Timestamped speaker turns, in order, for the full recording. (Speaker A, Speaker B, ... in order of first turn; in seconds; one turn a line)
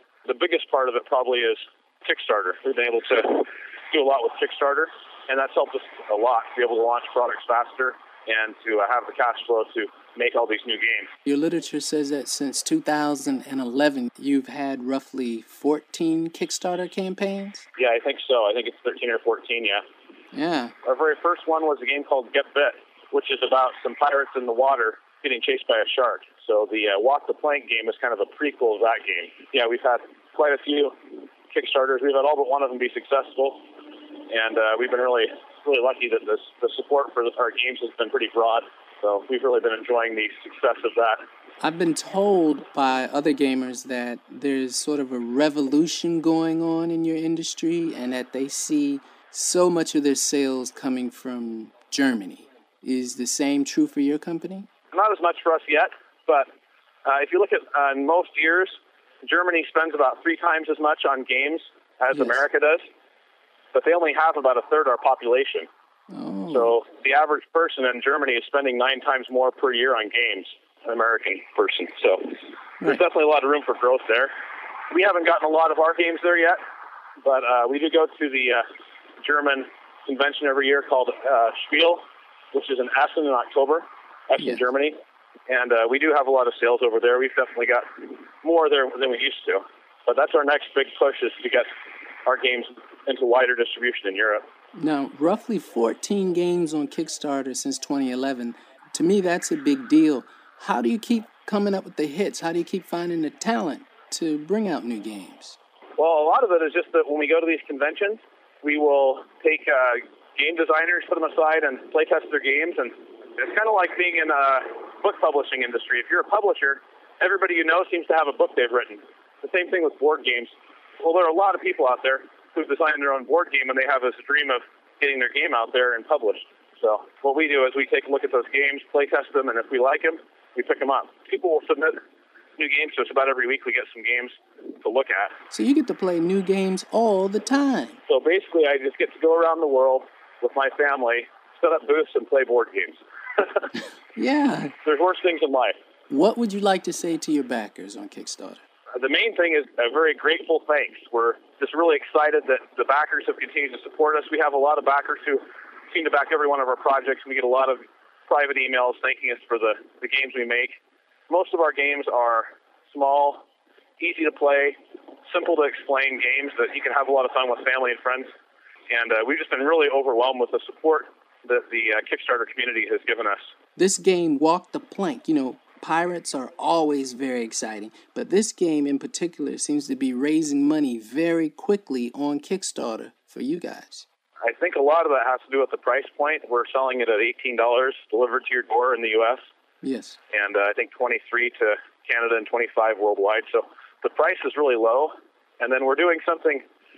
Speaker A: 0.2-11.1
Speaker B: 11.2-17.7
Speaker A: 17.8-19.8
Speaker B: 20.3-20.7
Speaker A: 20.8-31.0
Speaker A: 31.5-33.6
Speaker A: 34.3-41.2
Speaker B: 41.6-54.7
Speaker A: 54.9-56.5
Speaker A: 57.0-62.8
Speaker B: 62.1-62.4
Speaker A: 63.7-65.7
Speaker B: 66.1-66.7
Speaker A: 66.5-74.3
Speaker A: 74.9-76.6
Speaker A: 77.2-78.6
Speaker A: 79.2-85.0
Speaker A: 85.5-91.7
Speaker A: 92.2-94.4
Speaker B: 94.8-105.6
Speaker A: 106.0-132.0
Speaker A: 132.6-135.3
Speaker B: 135.5-138.0
Speaker A: 138.1-143.7
Speaker B: 144.2-144.7
Speaker A: 144.8-145.7
Speaker B: 146.1-148.6
Speaker A: 148.9-160.8
Speaker A: 161.3-163.4
Speaker A: 164.0-164.8
Speaker A: 165.3-168.3
Speaker A: 168.9-173.5
Speaker B: 173.8-184.1
Speaker A: 184.4-189.4
Speaker B: 189.8-190.2
Speaker A: 190.3-196.6